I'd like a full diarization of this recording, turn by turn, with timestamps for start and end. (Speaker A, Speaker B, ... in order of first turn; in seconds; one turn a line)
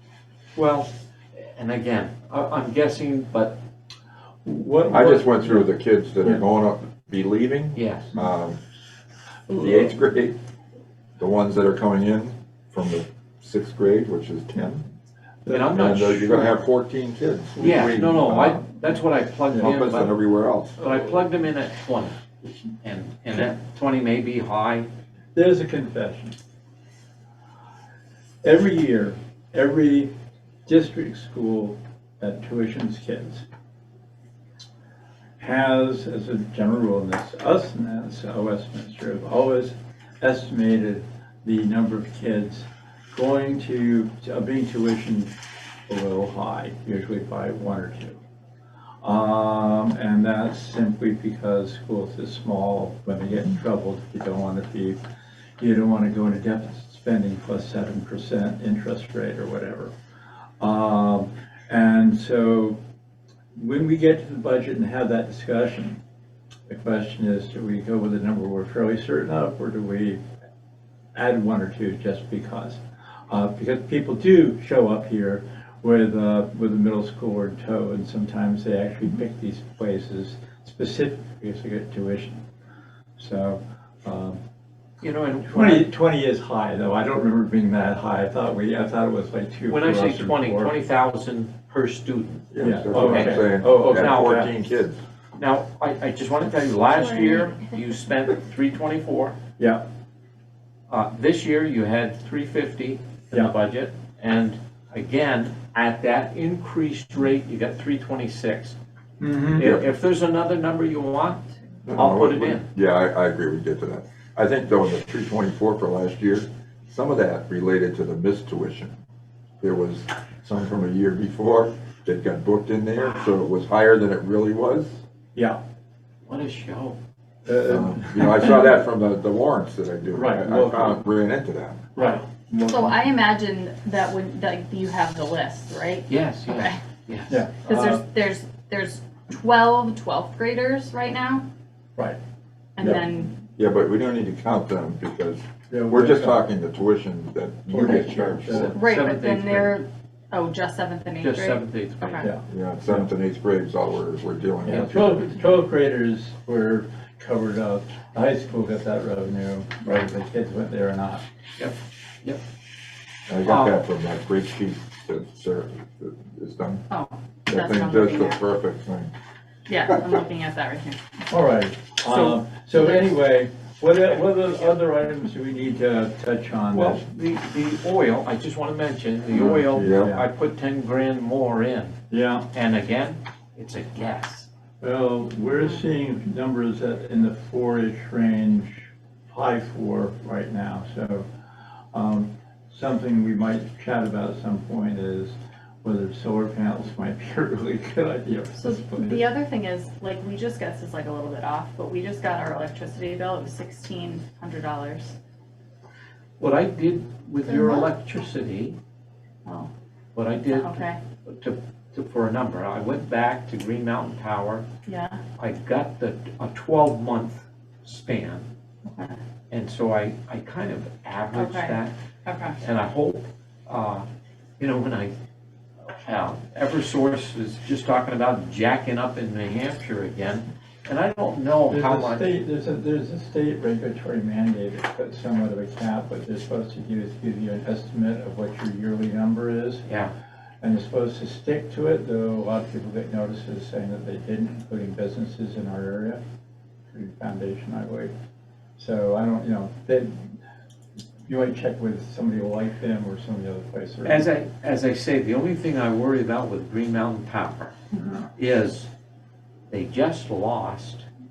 Speaker A: 0.6-3.6
Speaker B: 4.4-5.7
Speaker C: 4.9-8.6
Speaker A: 7.7-8.1
Speaker C: 9.5-10.4
Speaker C: 11.2-14.9
Speaker B: 15.4-15.9
Speaker A: 15.5-16.6
Speaker C: 15.7-18.8
Speaker B: 17.6-17.9
Speaker A: 17.6-20.2
Speaker C: 19.5-20.9
Speaker A: 20.8-22.2
Speaker A: 22.8-24.9
Speaker B: 25.4-26.4
Speaker B: 28.4-30.1
Speaker B: 30.7-33.5
Speaker B: 35.4-45.3
Speaker B: 45.9-48.2
Speaker B: 49.0-55.0
Speaker B: 55.6-59.9
Speaker B: 60.6-62.8
Speaker B: 63.5-66.0
Speaker B: 66.7-70.2
Speaker B: 71.2-82.4
Speaker B: 83.2-84.4
Speaker A: 85.0-85.9
Speaker B: 85.5-90.8
Speaker A: 89.7-94.5
Speaker C: 92.5-95.0
Speaker B: 92.6-94.5
Speaker A: 95.4-99.4
Speaker D: 96.9-97.7
Speaker A: 100.9-108.8
Speaker B: 109.2-109.7
Speaker A: 109.5-112.7
Speaker C: 109.6-109.8
Speaker C: 111.8-119.0
Speaker C: 119.6-125.0
Speaker B: 125.3-125.6
Speaker A: 126.3-127.0
Speaker B: 127.5-128.7
Speaker C: 127.7-131.8
Speaker B: 130.1-131.0
Speaker B: 131.9-133.1
Speaker D: 132.6-136.8
Speaker A: 136.1-137.4
Speaker B: 137.3-138.0
Speaker D: 137.6-141.4
Speaker D: 142.8-143.3
Speaker C: 143.6-148.7
Speaker B: 145.7-146.5
Speaker B: 147.7-148.8
Speaker A: 148.5-149.8
Speaker D: 148.8-152.3
Speaker A: 151.2-152.3
Speaker B: 152.2-153.1
Speaker C: 152.5-155.3
Speaker A: 154.7-154.9
Speaker B: 154.7-161.2
Speaker A: 161.6-162.4
Speaker C: 163.3-166.8
Speaker A: 163.4-163.8
Speaker D: 166.9-168.4
Speaker C: 167.5-169.1
Speaker D: 169.7-171.0
Speaker B: 171.3-177.0
Speaker D: 172.1-173.1
Speaker A: 176.7-182.0
Speaker B: 179.3-180.3
Speaker C: 179.4-180.1
Speaker B: 182.1-182.5
Speaker A: 182.5-184.5
Speaker B: 184.8-191.3
Speaker B: 191.9-199.2
Speaker D: 198.6-205.2
Speaker A: 206.4-208.8
Speaker D: 207.5-207.9
Speaker A: 210.1-214.7
Speaker D: 210.4-211.0
Speaker D: 214.9-215.2
Speaker A: 215.4-218.5
Speaker D: 218.8-219.2
Speaker A: 219.5-221.9
Speaker D: 221.3-222.6
Speaker A: 222.6-224.1
Speaker A: 224.6-225.2
Speaker A: 225.9-232.3
Speaker B: 231.7-239.8
Speaker A: 239.9-240.1
Speaker B: 240.6-246.2
Speaker B: 246.9-248.1
Speaker B: 248.8-250.3
Speaker B: 251.3-254.3
Speaker A: 254.0-257.7
Speaker B: 257.9-258.3
Speaker A: 258.4-258.9
Speaker A: 259.7-261.1